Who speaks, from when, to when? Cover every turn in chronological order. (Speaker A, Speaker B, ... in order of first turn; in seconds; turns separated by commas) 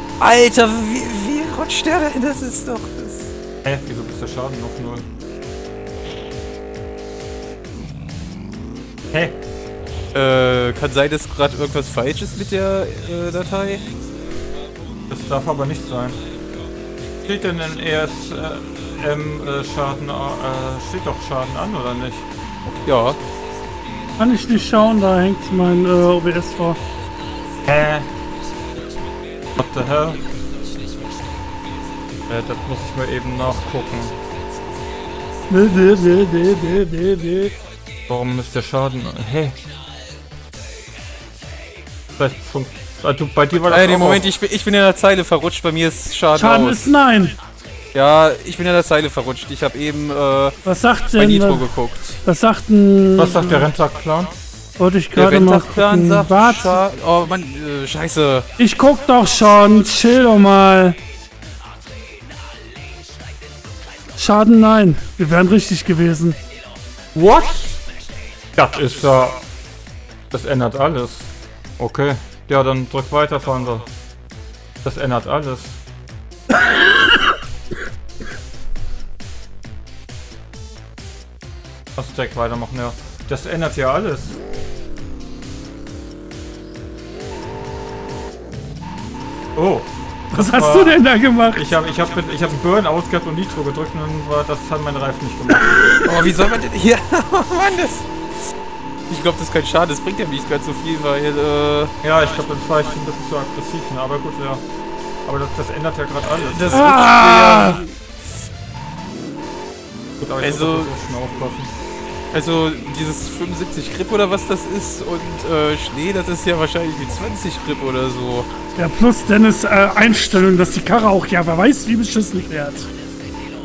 Speaker A: 0.2-3.3, Speaker B: 3.6-5.0, Speaker A: 10.1-13.9, Speaker B: 15.1-16.2, Speaker B: 17.2-22.3, Speaker A: 22.8-23.2, Speaker C: 24.2-26.8, Speaker B: 27.6-28.1, Speaker B: 29.6-30.2, Speaker B: 32.3-34.1, Speaker C: 35.5-37.5, Speaker B: 38.1-39.6, Speaker B: 42.2-44.2, Speaker A: 43.6-46.9, Speaker C: 46.3-47.4, Speaker A: 47.9-52.2, Speaker C: 50.6-51.6, Speaker C: 52.2-53.7, Speaker B: 53.1-54.3, Speaker C: 54.8-56.8, Speaker A: 55.1-58.5, Speaker C: 58.6-61.0, Speaker C: 64.2-66.4, Speaker B: 67.1-67.8, Speaker B: 68.5-69.4, Speaker B: 70.3-73.9, Speaker B: 74.8-75.8, Speaker B: 82.0-84.4, Speaker B: 89.5-91.0, Speaker C: 90.3-91.7, Speaker B: 91.5-96.3, Speaker A: 96.0-98.2, Speaker A: 99.1-101.9, Speaker B: 102.0-104.6, Speaker B: 105.2-107.0, Speaker A: 106.4-107.8, Speaker C: 106.6-107.8, Speaker B: 110.2-111.7, Speaker A: 110.4-110.9, Speaker A: 112.3-118.5, Speaker C: 118.8-122.9